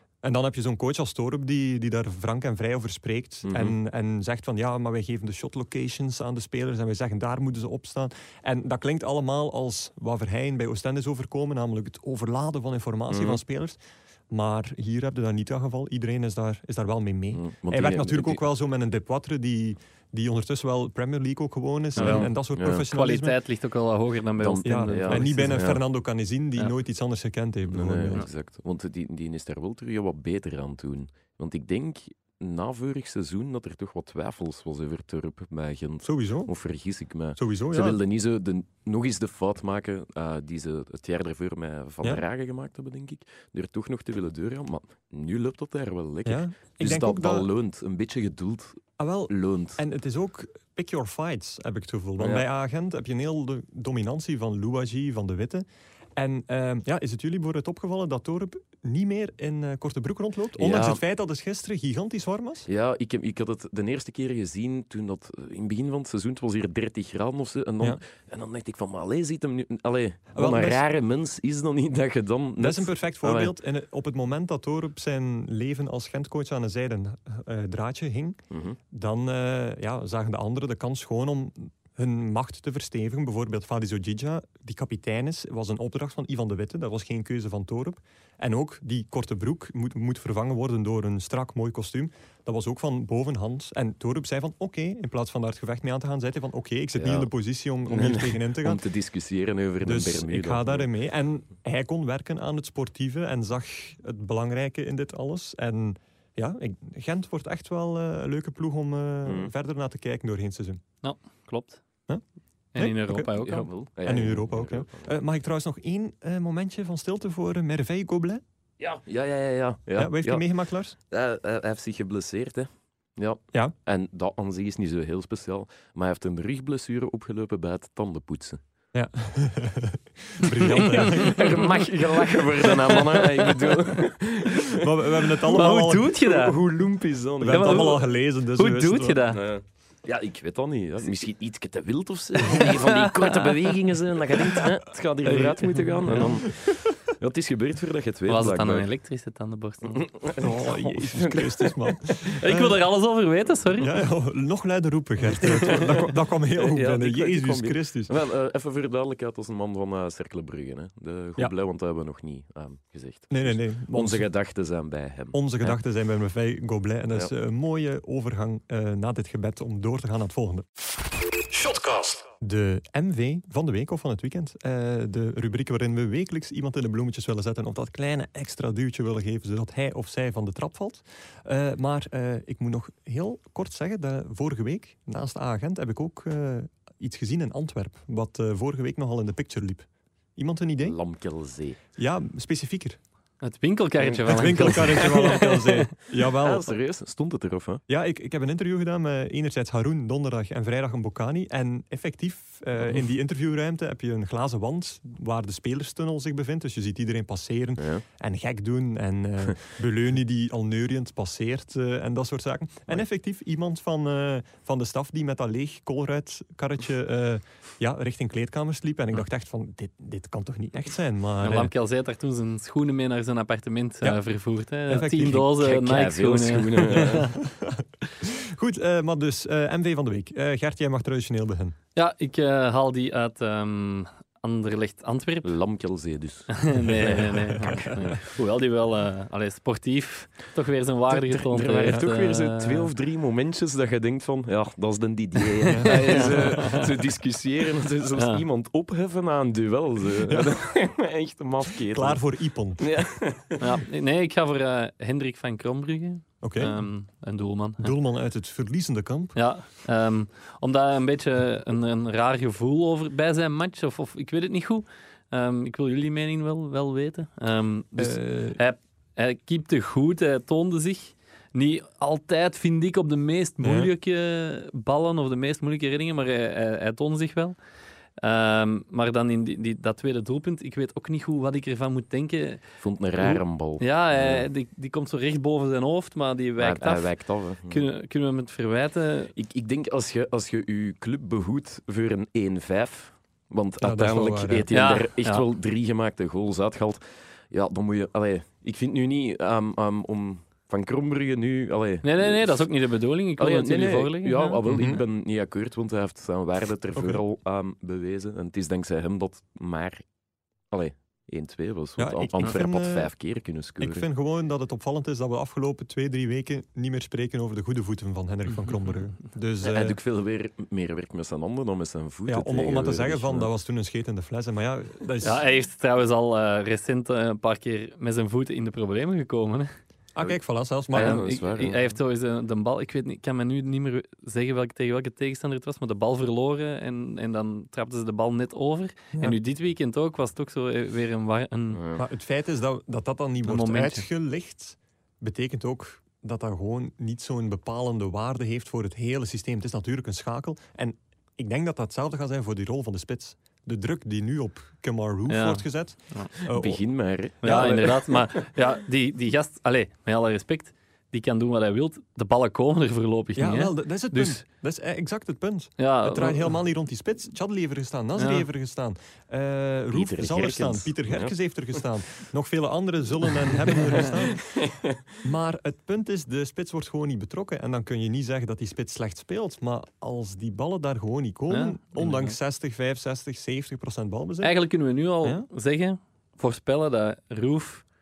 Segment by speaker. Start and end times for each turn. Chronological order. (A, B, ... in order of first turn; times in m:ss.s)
0:00.2-0:23.4 A
0:03.4-0:03.8 B
0:13.1-0:13.4 B
0:17.3-0:18.4 B
0:22.0-0:22.9 B
0:22.0-0:22.3 C
0:22.9-0:25.7 C
0:24.4-0:25.8 B
0:24.6-0:28.2 A
0:27.7-0:49.8 B
0:36.0-0:36.5 A
0:37.4-0:38.0 A
0:46.2-0:47.5 A
0:49.0-1:02.7 A
0:52.2-0:52.4 B
1:00.6-1:01.0 B
1:02.7-1:13.5 B
1:10.4-1:10.8 A
1:12.6-1:38.8 A
1:18.5-1:18.8 B
1:37.0-1:37.3 B
1:37.9-1:40.9 B
1:39.8-1:50.8 A
1:49.2-1:49.5 B
1:51.0-1:51.8 C
1:52.7-1:53.7 C
1:52.8-1:53.3 A
1:53.3-1:55.1 B
1:54.0-1:58.4 A
1:58.8-2:00.5 B
2:00.0-2:01.0 A
2:01.0-2:08.6 B
2:08.9-2:11.7 A
2:10.7-2:11.6 C
2:10.7-2:14.9 B
2:14.7-2:16.2 A
2:15.5-2:16.6 C
2:15.5-2:17.9 B
2:17.4-2:19.2 A
2:17.5-2:19.4 C
2:19.3-2:28.9 B
2:22.5-2:23.7 C
2:25.3-2:26.4 C
2:26.1-2:26.9 A
2:28.3-2:30.2 C
2:29.9-2:31.8 B
2:30.4-2:32.8 A
2:32.3-2:33.9 C
2:33.8-2:38.1 A
2:35.2-2:45.8 B
2:43.3-2:44.3 A
2:45.3-2:50.7 A
2:51.5-3:11.0 A
3:10.8-3:11.8 B
3:12.0-3:13.0 A
3:13.4-3:15.9 C
3:14.0-3:15.4 B
3:14.2-3:16.7 A
3:16.4-3:17.8 B
3:17.9-3:41.7 A
3:27.8-3:28.0 B
3:41.4-3:47.3 C
3:44.9-3:45.5 A
3:45.6-3:47.3 B
3:47.0-3:51.8 A
3:52.0-3:55.5 C
3:55.4-3:58.0 B
3:56.5-4:02.9 C
4:01.1-4:12.2 B
4:05.6-4:06.9 C
4:05.7-4:06.3 A
4:08.2-4:08.4 C
4:10.3-4:10.5 A
4:11.7-4:12.9 A
4:12.8-4:13.8 B
4:13.6-4:18.0 C
4:16.4-4:16.8 A
4:17.8-4:19.4 A
4:19.4-4:37.6 C
4:28.0-4:28.6 A
4:33.6-4:33.9 A
4:38.2-4:42.6 C
4:42.8-4:44.5 B
4:43.2-4:47.1 C
4:46.6-4:47.8 B
4:47.7-4:49.3 C
4:49.4-5:02.7 B
4:53.8-4:54.7 A
4:54.7-4:55.4 C
5:02.0-5:04.6 C
5:03.4-5:10.0 B
5:04.7-5:05.0 A
5:07.0-5:07.2 A
5:10.7-5:14.1 B
5:12.0-5:13.1 A
5:13.8-5:20.0 A
5:19.6-5:23.5 B
5:22.3-5:25.4 A
5:25.2-5:29.7 C
5:30.2-5:31.3 A
5:30.9-5:31.8 B
5:31.0-5:41.8 C
5:41.7-5:42.0 B
5:42.0-5:56.8 A
5:43.4-5:44.0 C
5:55.3-5:56.3 C
5:56.4-5:58.1 B
5:57.4-5:57.8 A
5:57.4-6:04.4 C
6:03.4-6:14.7 A
6:05.8-6:06.6 C
6:08.2-6:08.5 C
6:09.9-6:11.4 B
6:13.5-6:15.0 B
6:15.2-6:24.5 A
6:21.5-6:22.4 C
6:24.4-6:27.8 C